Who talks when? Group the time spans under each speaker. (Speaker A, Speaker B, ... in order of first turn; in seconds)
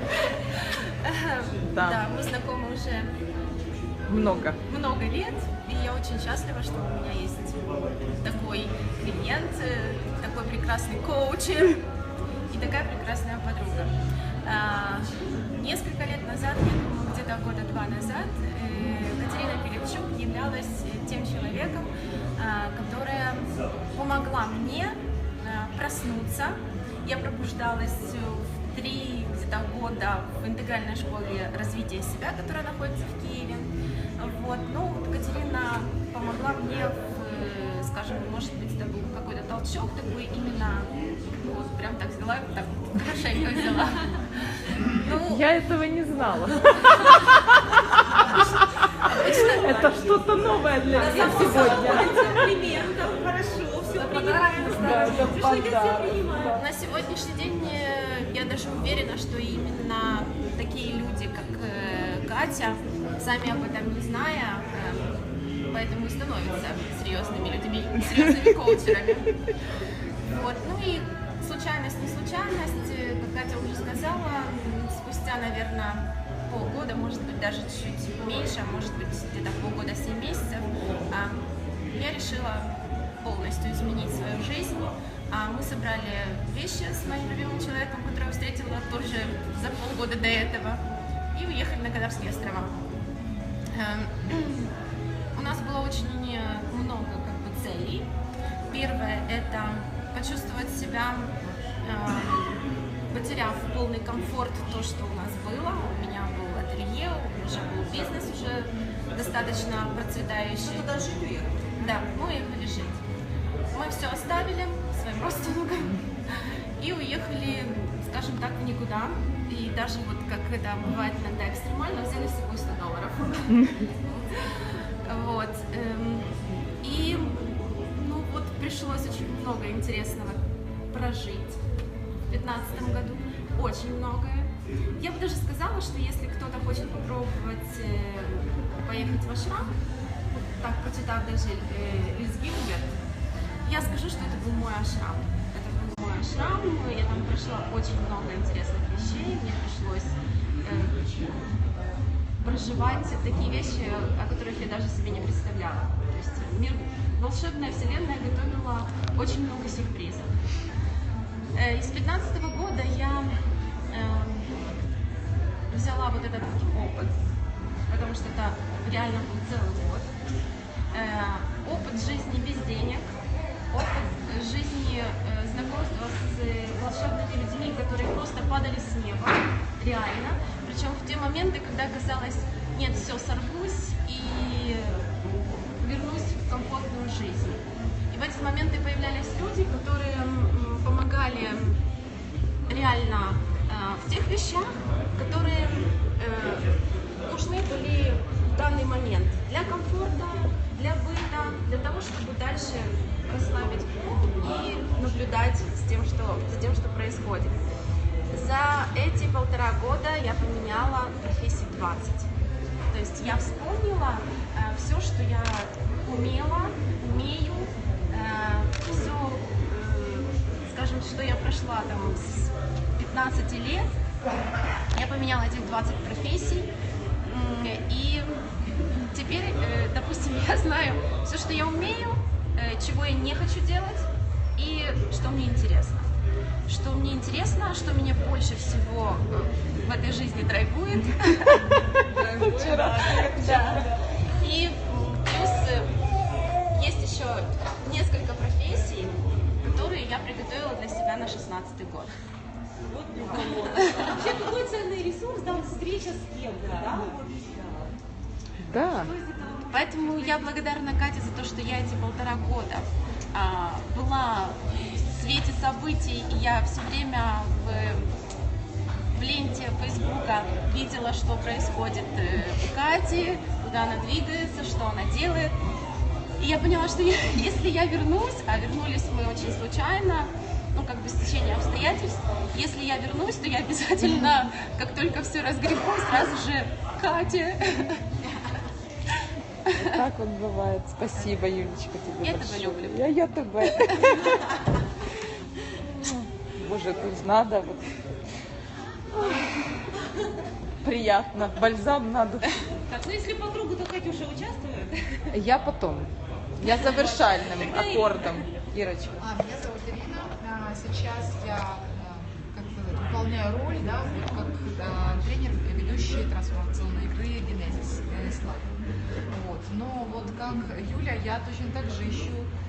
Speaker A: 1.0-3.1, 4.2-7.6, 8.2-11.8, 12.5-13.9, 14.4-44.1, 45.0-45.4, 51.1-52.3, 56.5-69.3, 70.3-90.8, 91.3-92.7, 93.7-94.7, 95.3-98.1, 98.7-101.3, 101.8-102.4, 103.1-110.9, 111.8-113.0, 113.7-116.0, 116.8-124.2, 125.0-126.3, 126.8-131.6, 132.3-139.8, 140.3-142.9, 143.7-151.2, 152.4-160.3, 161.5-163.3, 163.9-164.7, 165.7-167.2, 167.9-170.1, 170.9-173.1, 173.7-185.1, 185.8-187.6, 188.1-191.8, 192.7-196.7, 197.3-207.6, 208.3-212.3, 212.9-223.9, 224.9-226.7, 227.2-228.4, 229.1-236.1, 236.7-241.6, 243.2-243.8, 244.4-245.9, 246.7-252.1, 253.3-254.2, 259.7-268.1, 269.1-275.6, 276.4-288.0, 292.2-293.1, 293.7-294.2
Speaker B: 1.7-2.0, 4.1-4.6, 45.3-47.8, 49.1-52.5, 54.0-56.6, 242.5-243.8, 258.6-259.1, 289.8-294.4, 296.0-297.8, 300.8-302.5, 305.3-306.1, 306.6-309.2
Speaker C: 49.3-50.0, 50.9-56.6, 252.9-257.9, 258.8-260.6, 302.9-305.4, 306.6-308.6
Speaker D: 110.6-111.6, 242.1-243.4
Speaker E: 309.2-318.7, 319.3-322.5